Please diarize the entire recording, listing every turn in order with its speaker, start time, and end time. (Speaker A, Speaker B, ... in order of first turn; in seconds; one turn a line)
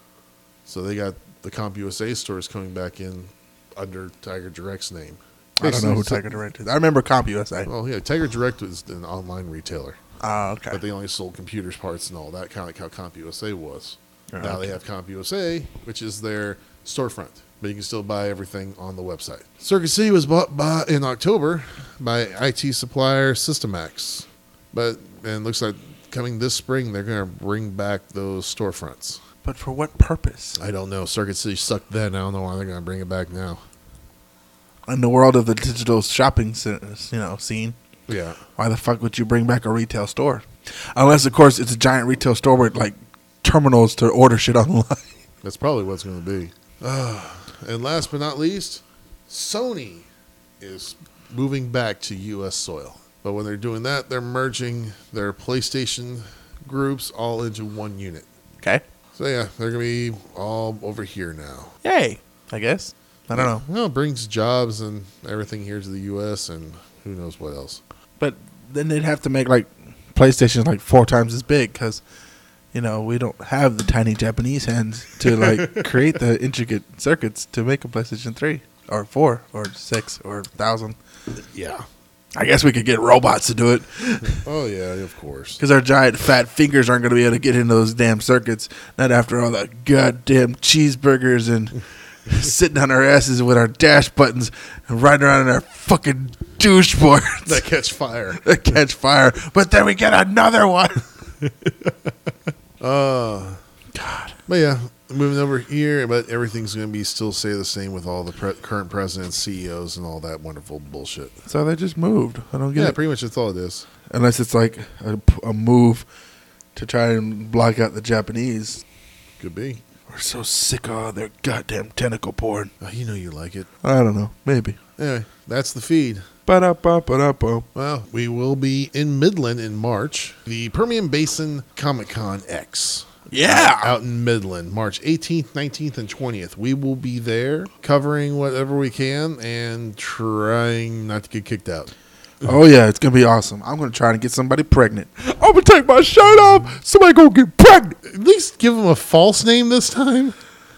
Speaker A: 0.7-6.3
Speaker B: 5.6-7.7
Speaker A: 7.7-10.0
Speaker B: 10.2-10.8
Speaker A: 10.7-29.2
Speaker B: 14.3-14.8
Speaker B: 29.4-30.6
Speaker A: 30.6-33.6
Speaker B: 34.9-37.8
Speaker A: 38.1-38.4
Speaker B: 38.6-45.1
Speaker A: 45.4-50.1
Speaker A: 50.6-58.3
Speaker A: 59.1-61.8
Speaker B: 61.8-63.6
Speaker A: 63.4-67.8
Speaker B: 68.2-72.0
Speaker B: 72.7-81.0
Speaker A: 75.3-75.9
Speaker A: 81.5-81.8
Speaker B: 82.3-84.4
Speaker A: 84.4-85.6
Speaker B: 85.6-97.6
Speaker A: 97.5-98.4
Speaker B: 98.4-101.1
Speaker A: 101.4-101.9
Speaker A: 102.8-103.6
Speaker B: 103.9-104.4
Speaker A: 104.5-111.4
Speaker B: 111.5-113.0
Speaker A: 112.8-113.9
Speaker B: 114.1-116.1
Speaker B: 116.8-118.8
Speaker A: 119.4-119.8
Speaker B: 120.1-122.7
Speaker A: 122.8-123.7
Speaker B: 123.8-124.8
Speaker A: 125.0-126.3
Speaker B: 126.5-127.7
Speaker A: 127.8-141.9
Speaker B: 133.3-133.9
Speaker B: 142.4-148.0
Speaker A: 148.1-150.4